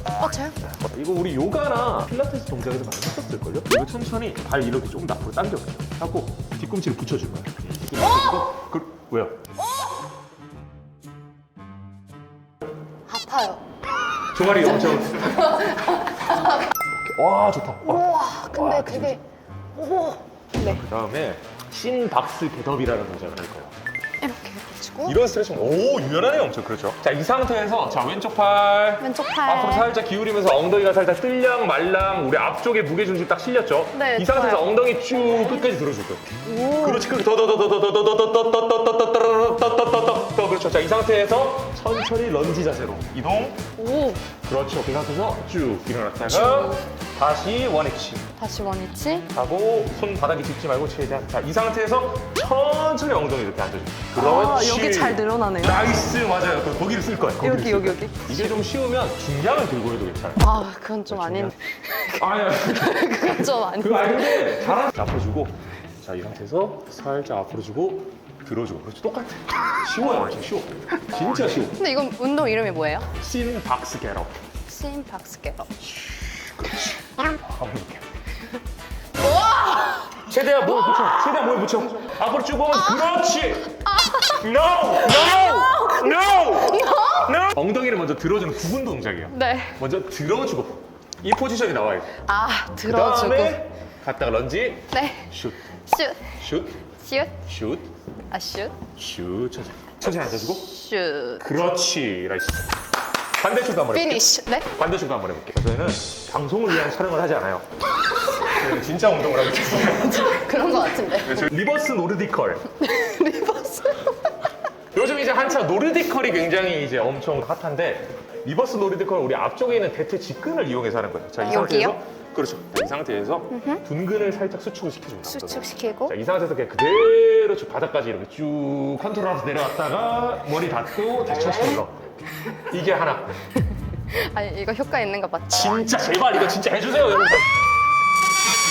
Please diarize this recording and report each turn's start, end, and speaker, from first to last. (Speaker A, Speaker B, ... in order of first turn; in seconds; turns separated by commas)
Speaker A: 0.2-0.6, Speaker B: 0.6-9.4, Speaker A: 8.0-8.5, Speaker A: 9.6-9.9, Speaker A: 13.1-13.6, Speaker B: 14.3-15.7, Speaker A: 14.4-16.7, Speaker B: 16.8-19.2, Speaker A: 17.9-19.2, Speaker A: 19.8-20.8, Speaker B: 20.6-23.7, Speaker A: 24.2-25.2, Speaker B: 25.1-43.6, Speaker A: 29.0-29.9, Speaker A: 33.9-34.7, Speaker A: 36.4-37.1, Speaker A: 43.8-44.2, Speaker B: 44.4-48.3, Speaker A: 46.3-46.8, Speaker A: 48.4-49.3, Speaker B: 49.3-60.5, Speaker A: 54.1-55.9, Speaker A: 57.4-58.5, Speaker A: 60.4-64.8, Speaker B: 61.1-61.5, Speaker B: 62.1-71.8, Speaker A: 71.8-73.1, Speaker B: 73.1-74.4, Speaker A: 74.7-75.9, Speaker B: 77.3-78.1, Speaker A: 79.2-81.2, Speaker B: 80.2-83.7, Speaker A: 82.7-87.3, Speaker B: 84.3-92.2, Speaker A: 89.3-89.8, Speaker A: 92.2-93.6, Speaker B: 92.8-95.6, Speaker A: 94.9-96.4, Speaker B: 96.3-96.8, Speaker A: 97.0-97.4, Speaker B: 97.5-97.9, Speaker A: 98.3-98.8, Speaker B: 99.0-100.7, Speaker A: 100.6-101.5, Speaker B: 101.4-102.8, Speaker B: 103.3-107.7, Speaker A: 103.9-104.7, Speaker A: 108.2-108.6, Speaker B: 108.4-110.3, Speaker A: 109.7-111.5, Speaker B: 111.2-112.7, Speaker A: 112.8-114.4, Speaker B: 114.9-133.4, Speaker A: 121.4-122.0, Speaker A: 123.5-123.8, Speaker A: 125.3-126.1, Speaker A: 134.1-135.8, Speaker B: 135.5-137.5